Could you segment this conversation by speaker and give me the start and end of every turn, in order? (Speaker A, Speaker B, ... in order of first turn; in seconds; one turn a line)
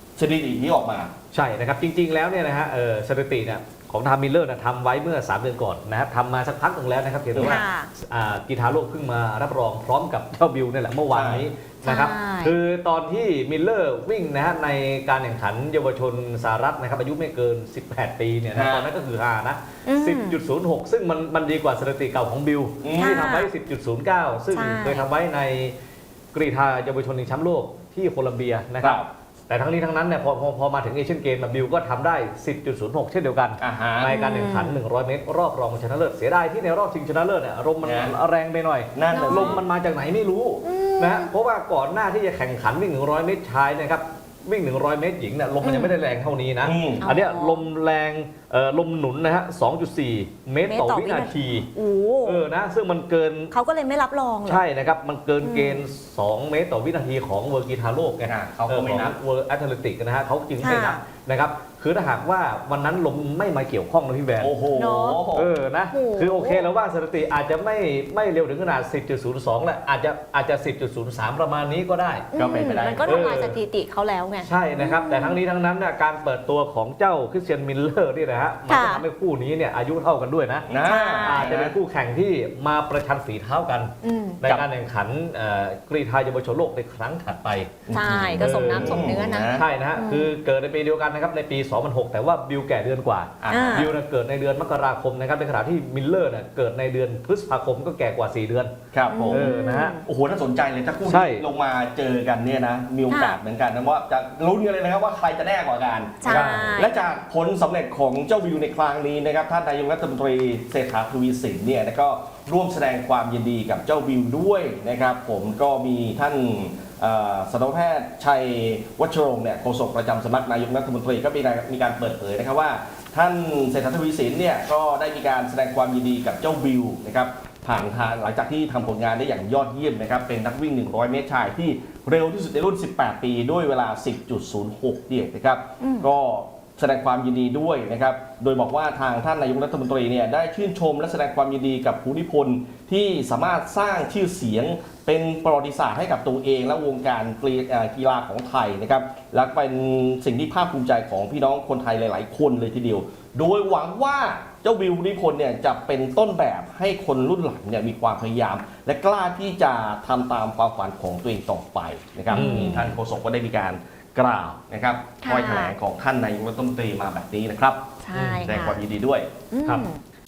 Speaker A: 0.2-1.1
Speaker B: 1.3-25.8
Speaker A: 7.3-7.6
Speaker C: 7.4-7.9
Speaker A: 11.1-11.4
Speaker C: 11.8-12.6
Speaker A: 18.5-18.9
Speaker C: 19.9-20.4
Speaker A: 22.8-23.3
Speaker C: 23.0-23.5
Speaker C: 24.5-25.1
Speaker B: 26.3-51.7
Speaker A: 28.8-29.1
Speaker A: 33.6-34.1
Speaker C: 34.1-34.8
Speaker A: 37.8-38.1
Speaker A: 38.9-39.6
Speaker C: 39.1-39.6
Speaker C: 40.6-41.3
Speaker C: 45.6-46.0
Speaker A: 46.6-47.1
Speaker C: 47.0-47.7
Speaker C: 50.6-52.4
Speaker B: 52.2-53.5
Speaker C: 53.5-54.6
Speaker B: 54.5-64.5
Speaker C: 55.4-55.8
Speaker A: 58.2-59.2
Speaker C: 60.6-61.0
Speaker A: 64.4-65.5
Speaker C: 64.7-65.2
Speaker B: 65.3-72.3
Speaker C: 65.9-66.7
Speaker C: 72.3-75.4
Speaker A: 72.3-73.4
Speaker B: 73.0-73.6
Speaker B: 74.4-80.7
Speaker C: 78.7-79.0
Speaker A: 80.7-81.8
Speaker C: 80.8-81.5
Speaker B: 81.2-87.8
Speaker C: 84.0-84.4
Speaker A: 87.8-89.6
Speaker C: 87.9-90.3
Speaker B: 88.3-98.7
Speaker A: 93.4-93.9
Speaker C: 93.5-93.9
Speaker A: 98.9-99.5
Speaker C: 99.1-100.0
Speaker B: 99.3-100.0
Speaker A: 100.1-167.9
Speaker B: 101.1-101.4
Speaker C: 103.1-103.4
Speaker C: 106.2-107.1
Speaker B: 106.3-106.8
Speaker C: 135.8-136.1
Speaker C: 162.3-162.9
Speaker B: 162.3-162.9
Speaker C: 165.2-165.7
Speaker C: 168.0-168.8
Speaker B: 168.1-168.5
Speaker A: 168.4-169.3
Speaker C: 169.5-170.0